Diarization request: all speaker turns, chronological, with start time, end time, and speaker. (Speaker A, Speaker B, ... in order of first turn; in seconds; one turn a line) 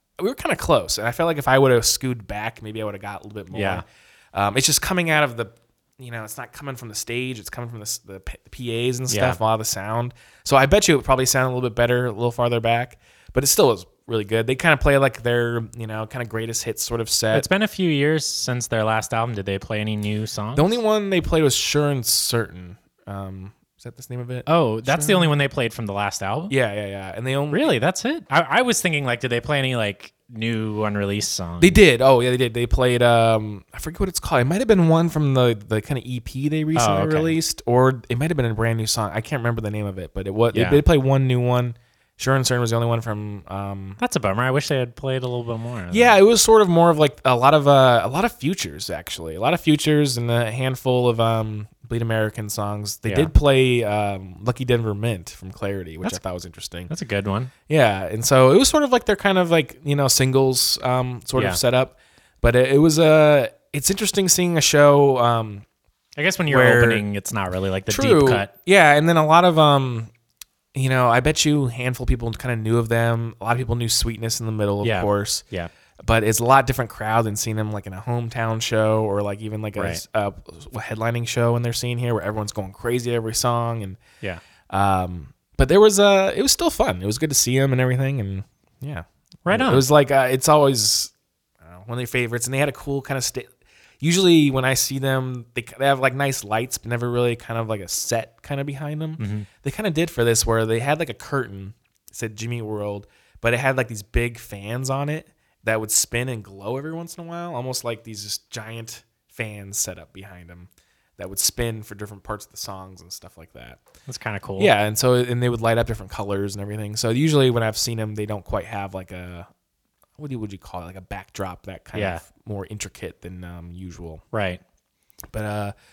Speaker A: 0.2-17.5
Speaker B: 3.5-3.8
Speaker B: 9.1-9.4
Speaker B: 17.3-20.8
Speaker A: 20.6-25.3
Speaker B: 24.4-26.5
Speaker A: 26.5-27.7
Speaker B: 27.5-31.8
Speaker A: 31.6-44.0
Speaker B: 36.7-37.4
Speaker B: 40.5-40.8
Speaker B: 44.0-46.2
Speaker A: 45.9-56.9
Speaker B: 53.0-53.3
Speaker B: 56.9-57.5
Speaker A: 57.7-65.7
Speaker B: 66.2-68.5
Speaker A: 66.5-67.0
Speaker A: 67.9-70.1
Speaker A: 70.7-75.4
Speaker B: 74.8-75.7
Speaker A: 76.0-84.0
Speaker B: 79.8-80.0
Speaker A: 84.7-113.8
Speaker B: 89.5-89.8
Speaker B: 99.2-99.5
Speaker B: 114.1-114.7
Speaker A: 114.6-119.5
Speaker A: 120.2-124.2
Speaker B: 121.9-122.2
Speaker B: 124.3-124.6
Speaker A: 125.3-125.7